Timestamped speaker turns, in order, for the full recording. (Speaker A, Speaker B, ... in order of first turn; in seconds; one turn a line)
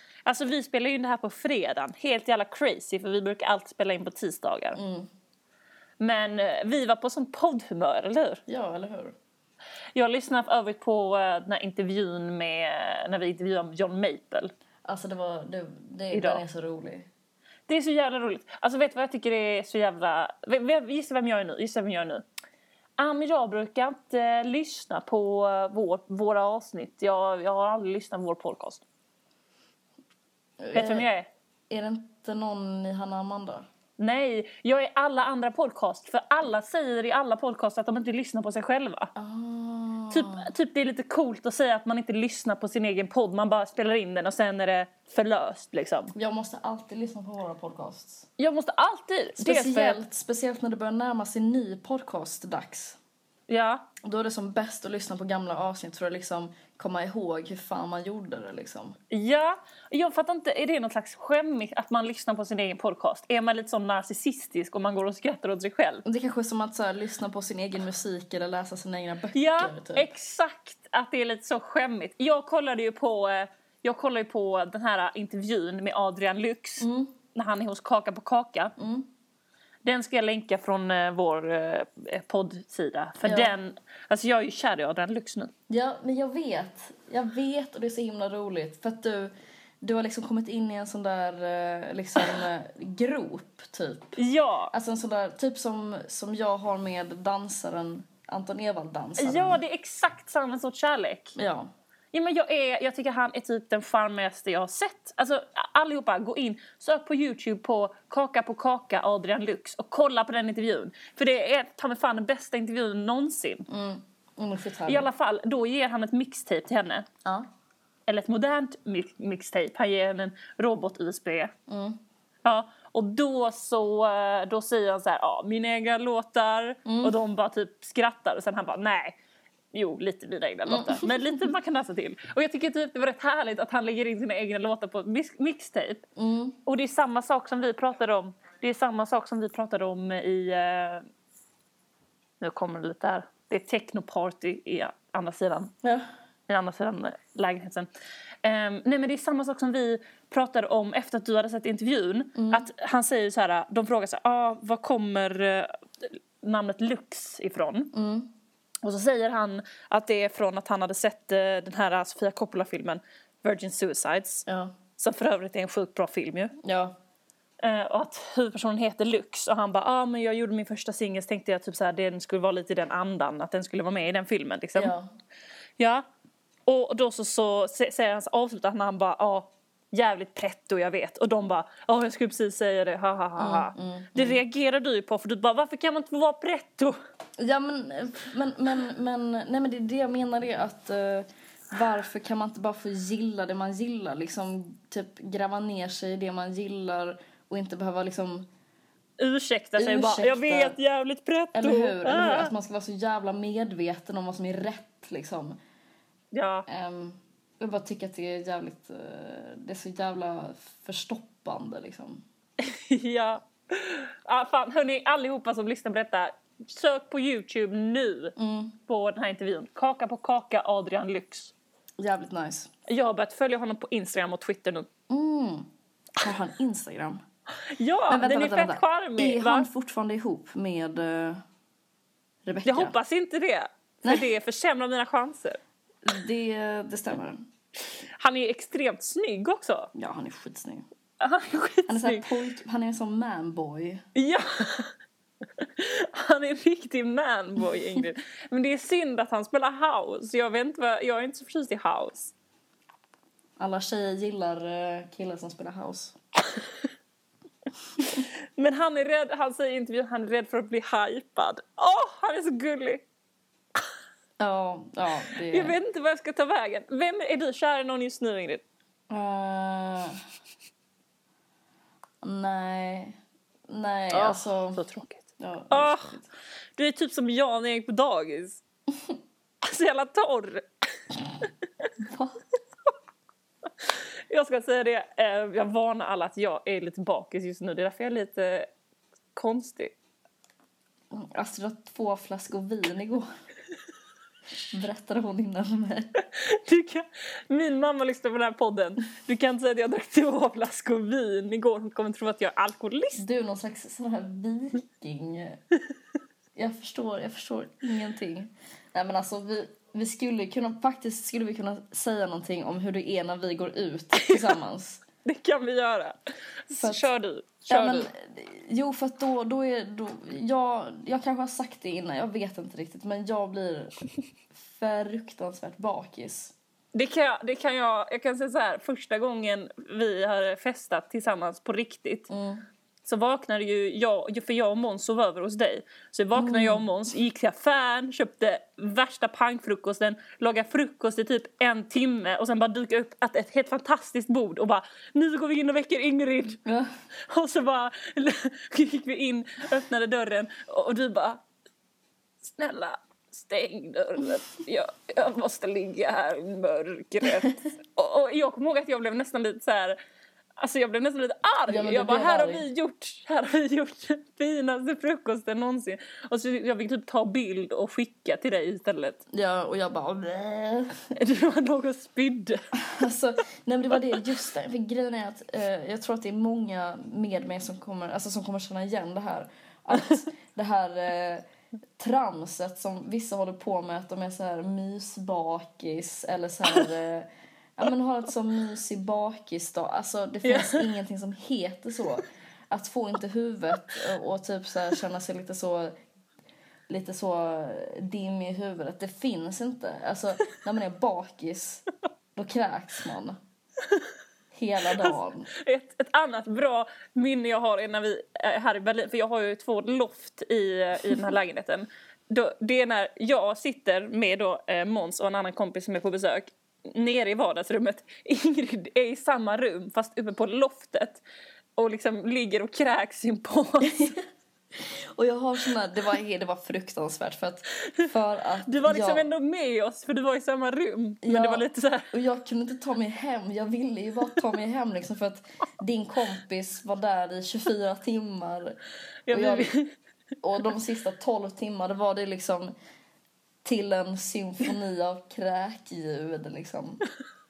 Speaker A: 0.2-4.8
Speaker B: 4.7-5.1
Speaker A: 6.0-8.4
Speaker B: 8.5-9.1
Speaker A: 9.9-14.5
Speaker B: 14.8-17.1
Speaker A: 16.1-16.4
Speaker A: 17.7-22.2
Speaker A: 23.0-28.8
Speaker B: 30.6-31.1
Speaker A: 30.7-31.3
Speaker B: 31.7-33.6
Speaker A: 34.0-39.1
Speaker B: 39.1-40.5
Speaker A: 40.1-46.1
Speaker B: 46.1-48.3
Speaker A: 48.4-50.0
Speaker B: 49.4-53.0
Speaker A: 53.5-53.9
Speaker B: 54.0-59.0
Speaker A: 59.1-66.0
Speaker B: 66.0-70.1
Speaker A: 69.3-78.7
Speaker B: 76.8-77.1
Speaker B: 78.8-79.1
Speaker A: 79.8-85.5
Speaker B: 83.2-83.5
Speaker B: 85.7-94.2
Speaker A: 94.2-94.7
Speaker B: 94.7-99.6
Speaker A: 99.2-101.4
Speaker B: 101.3-101.7
Speaker A: 102.1-113.7
Speaker B: 113.7-115.1
Speaker A: 114.9-117.1
Speaker A: 118.1-121.5
Speaker B: 121.7-122.0
Speaker A: 122.4-129.2
Speaker B: 126.8-127.1
Speaker A: 129.7-136.0
Speaker B: 130.7-131.5
Speaker B: 136.2-136.6
Speaker A: 136.6-141.0
Speaker A: 142.4-145.7
Speaker A: 146.5-147.9
Speaker A: 148.4-157.9
Speaker B: 152.3-152.7
Speaker B: 157.9-158.3
Speaker A: 158.8-164.4
Speaker B: 164.5-164.7
Speaker A: 165.0-166.5
Speaker B: 166.6-166.9
Speaker A: 167.6-174.9
Speaker B: 174.8-175.1
Speaker A: 175.8-176.1
Speaker A: 176.7-186.9
Speaker B: 183.4-184.4
Speaker B: 187.4-198.5
Speaker A: 199.2-202.5
Speaker B: 199.8-200.8
Speaker B: 201.5-205.6
Speaker A: 206.3-206.7
Speaker B: 206.7-212.2
Speaker A: 212.6-218.3
Speaker B: 218.3-218.7
Speaker A: 218.9-221.5
Speaker B: 222.0-222.7
Speaker A: 222.9-224.9
Speaker B: 225.1-225.7
Speaker B: 226.2-227.2
Speaker A: 227.7-229.7
Speaker B: 228.1-231.4
Speaker B: 232.4-232.9
Speaker A: 232.6-235.6
Speaker B: 236.0-237.4
Speaker A: 238.2-239.9
Speaker B: 239.9-240.8
Speaker A: 241.2-242.3
Speaker B: 241.9-244.0
Speaker A: 244.2-244.9
Speaker A: 245.6-252.3
Speaker B: 253.6-256.1
Speaker A: 258.2-263.0
Speaker B: 264.4-265.7
Speaker A: 265.5-268.6
Speaker B: 269.1-270.2
Speaker B: 272.2-274.8
Speaker A: 274.1-276.1
Speaker B: 275.4-276.3
Speaker A: 276.7-278.6
Speaker A: 279.6-280.7
Speaker B: 282.0-282.4
Speaker A: 283.8-288.7
Speaker A: 289.3-289.9
Speaker B: 291.1-293.3
Speaker B: 294.7-296.1
Speaker A: 296.3-303.2
Speaker B: 303.1-305.6
Speaker B: 306.6-315.0
Speaker A: 314.2-314.4
Speaker A: 315.2-316.1
Speaker A: 316.7-318.1
Speaker B: 316.8-317.1
Speaker B: 317.7-323.9
Speaker B: 324.5-326.5
Speaker A: 326.9-332.3
Speaker B: 332.3-332.6
Speaker A: 333.0-346.6
Speaker B: 336.3-336.8
Speaker B: 346.6-346.9
Speaker A: 347.2-351.4
Speaker A: 352.4-360.0
Speaker A: 360.6-369.2
Speaker B: 361.7-362.6
Speaker B: 369.3-371.0
Speaker A: 371.1-372.6
Speaker B: 372.7-381.4
Speaker B: 382.0-395.9
Speaker A: 390.4-390.9
Speaker B: 396.9-403.4
Speaker B: 404.5-405.5
Speaker A: 405.0-421.2
Speaker A: 421.8-424.1
Speaker B: 423.9-424.2
Speaker B: 424.8-429.2
Speaker A: 428.6-432.1
Speaker B: 431.2-438.8
Speaker A: 439.2-439.9
Speaker B: 439.3-439.7
Speaker B: 440.4-442.7
Speaker B: 443.6-447.0